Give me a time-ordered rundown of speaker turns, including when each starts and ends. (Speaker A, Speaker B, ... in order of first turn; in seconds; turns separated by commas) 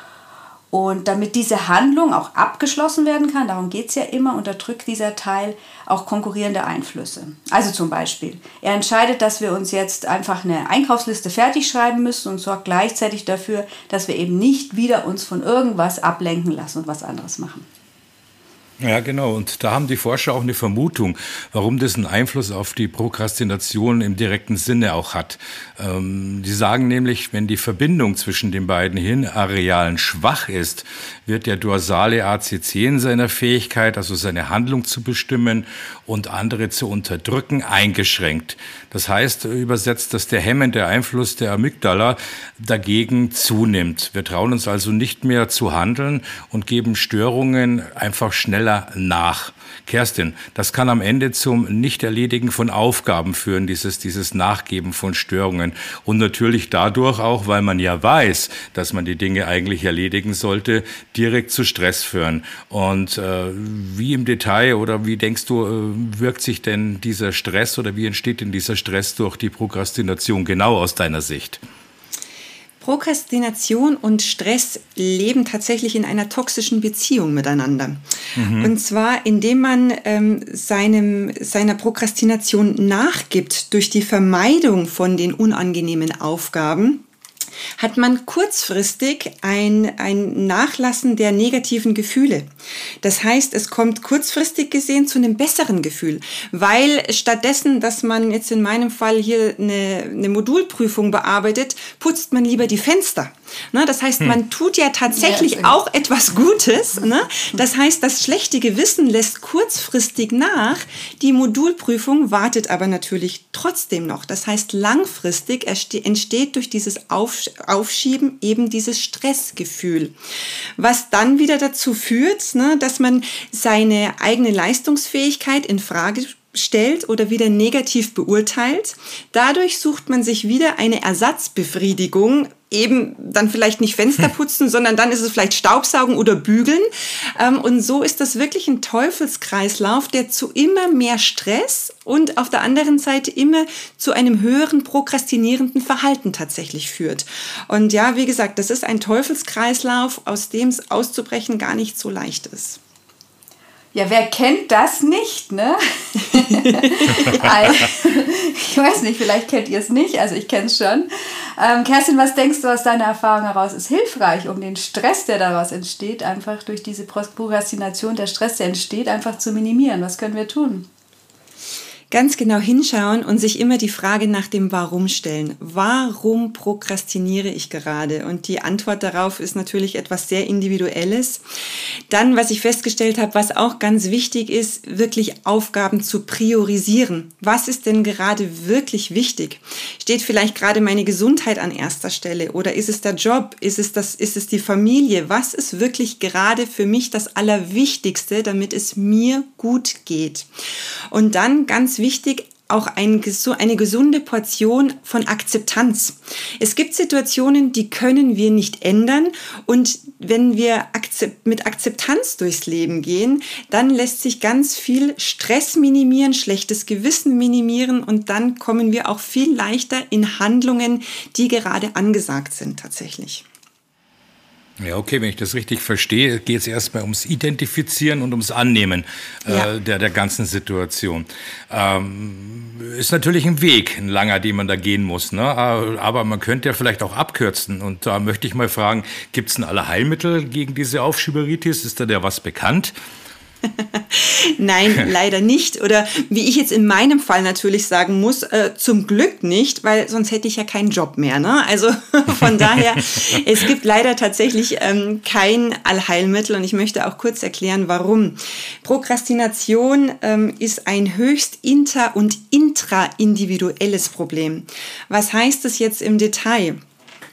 Speaker A: 0.7-17.6, Speaker B: 18.8-71.6, Speaker C: 72.8-87.0, Speaker B: 78.3-78.7, Speaker C: 87.8-92.5, Speaker C: 93.0-120.1, Speaker A: 105.2-105.8, Speaker C: 120.8-152.8, Speaker A: 153.9-170.9, Speaker C: 157.0-157.5, Speaker C: 172.1-181.4, Speaker C: 182.1-200.5, Speaker C: 201.1-223.4, Speaker B: 224.8-242.9, Speaker C: 243.8-266.8